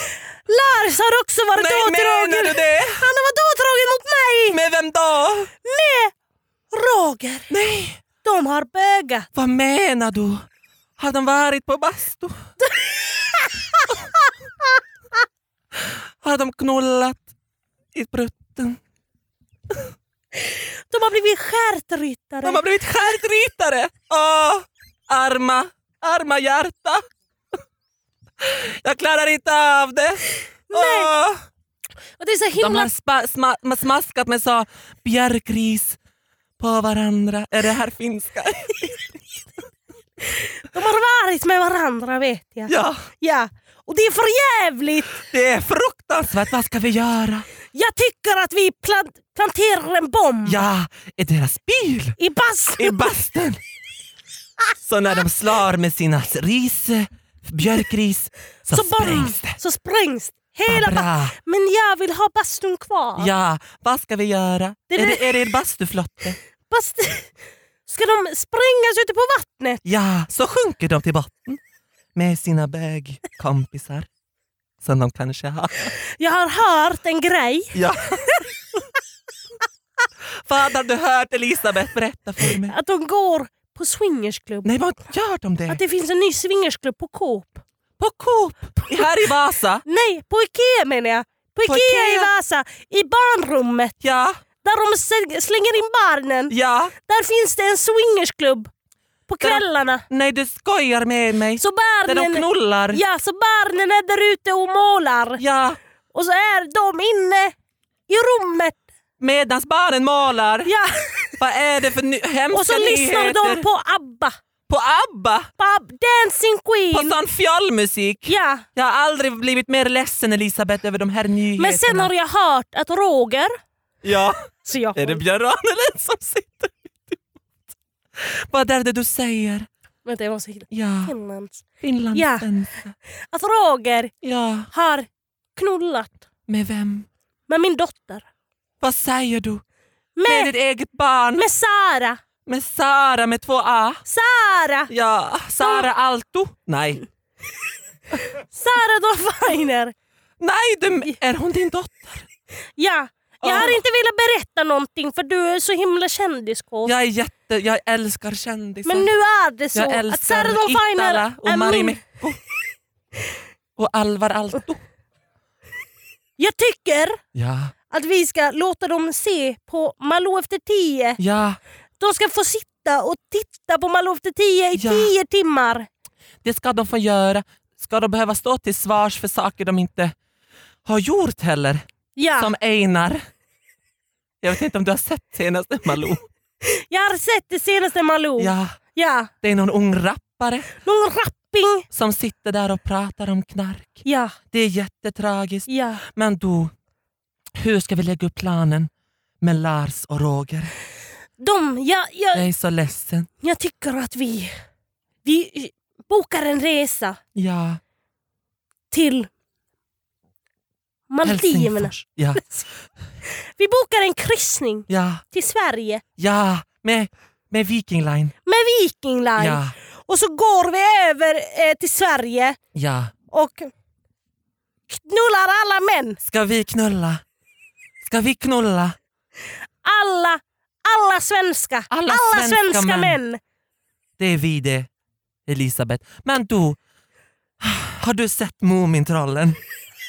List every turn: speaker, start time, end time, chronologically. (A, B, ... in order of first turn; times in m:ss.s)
0:00.5-0:04.6 A
0:01.6-0:03.0 B
0:04.5-0:05.5 B
0:05.6-0:06.1 A
0:06.7-0:07.5 A
0:07.5-0:08.0 B
0:08.2-0:09.3 A
0:09.3-0:10.4 B
0:11.0-0:12.4 B
0:12.6-0:13.9 A
0:15.8-0:17.2 B
0:17.9-0:18.8 B
0:20.5-0:22.6 A
0:22.4-0:27.0 B
0:28.4-0:31.4 B
0:30.7-0:31.1 A
0:32.2-0:32.9 A
0:32.6-0:36.0 B
0:36.6-0:39.2 B
0:40.7-0:45.1 A
0:42.7-0:43.0 B
0:45.2-0:47.4 B
0:47.7-0:50.6 A
0:50.4-0:52.2 B
0:52.2-0:53.0 A
0:52.8-0:53.6 B
0:54.8-0:59.6 B
0:58.7-1:03.3 A
1:00.7-1:01.3 B
1:03.2-1:06.4 B
1:04.9-1:05.3 A
1:06.7-1:07.3 A
1:07.9-1:09.8 A
1:09.8-1:11.6 B
1:12.1-1:14.1 B
1:14.8-1:15.9 B
1:16.1-1:17.8 A
1:17.7-1:18.5 B
1:20.4-1:22.7 B
1:22.7-1:24.7 A
1:24.6-1:25.8 B
1:25.7-1:27.6 A
1:28.0-1:29.8 B
1:29.9-1:33.9 A
1:31.7-1:32.3 B
1:34.0-1:34.4 B
1:34.6-1:36.5 A
1:36.5-1:36.9 B
1:37.0-1:38.7 A
1:39.3-1:40.0 A
1:39.4-1:43.0 B
1:41.6-1:45.4 A
1:45.4-1:45.8 B
1:46.1-1:47.5 A
1:48.1-1:48.8 A
1:49.2-1:50.7 B
1:50.6-1:51.4 A
1:51.4-1:53.6 B
1:52.5-1:54.4 A
1:54.7-1:55.5 B
1:55.6-1:57.1 A
1:56.9-2:02.1 B
1:58.3-1:58.6 A
2:01.6-2:03.5 A
2:04.0-2:04.4 B
2:04.6-2:05.2 A
2:04.9-2:07.2 B
2:08.2-2:09.7 B
2:10.0-2:11.6 A
2:10.7-2:11.1 B
2:11.8-2:12.9 B
2:12.1-2:12.5 A
2:13.3-2:14.1 A
2:14.2-2:14.7 B
2:14.7-2:16.2 A
2:16.5-2:17.1 B
2:17.5-2:18.2 A
2:18.8-2:19.6 B
2:20.2-2:20.5 A
2:20.2-2:21.4 B
2:21.4-2:22.2 A
2:22.5-2:24.0 B
2:24.1-2:24.9 A
2:24.9-2:27.0 B
2:28.4-2:29.9 A
2:30.4-2:32.2 B
2:32.8-2:36.9 A
2:33.4-2:33.8 B
2:36.8-2:39.1 B
2:38.8-2:42.0 A
2:39.7-2:42.4 B
2:43.8-2:44.8 B
2:46.4-2:47.2 A
2:47.3-2:47.7 B
2:47.9-2:51.2 A
2:51.2-2:51.6 B
2:52.0-2:55.9 A
2:54.8-2:55.1 B
2:56.4-3:00.1 B
3:00.8-3:01.8 B
3:02.2-3:02.5 A
3:02.4-3:03.2 B
3:04.4-3:06.2 B
3:06.6-3:09.3 A
3:08.4-3:08.8 B
3:09.4-3:10.7 B
3:10.8-3:11.8 A
3:11.9-3:16.7 B
3:14.0-3:14.3 A
3:15.7-3:16.0 A
3:17.6-3:18.9 B
3:19.4-3:20.7 B
3:21.4-3:22.4 A
3:22.3-3:23.3 B
3:23.4-3:24.5 A
3:25.2-3:27.2 A
3:27.4-3:27.8 B
3:28.9-3:29.3 A
3:31.1-3:31.9 A
3:31.2-3:32.5 B
3:33.6-3:36.0 A
3:34.9-3:35.2 B
3:36.2-3:38.3 B
3:38.4-3:42.6 A
3:39.4-3:39.7 B
3:42.7-3:43.1 B
3:43.3-3:43.7 A
3:44.9-3:46.2 A
3:46.2-3:47.2 B
3:48.0-3:49.0 B
3:49.8-3:53.4 A
3:51.9-3:53.2 B
3:54.2-3:54.9 B
3:55.5-3:56.8 B
3:57.6-3:59.6 B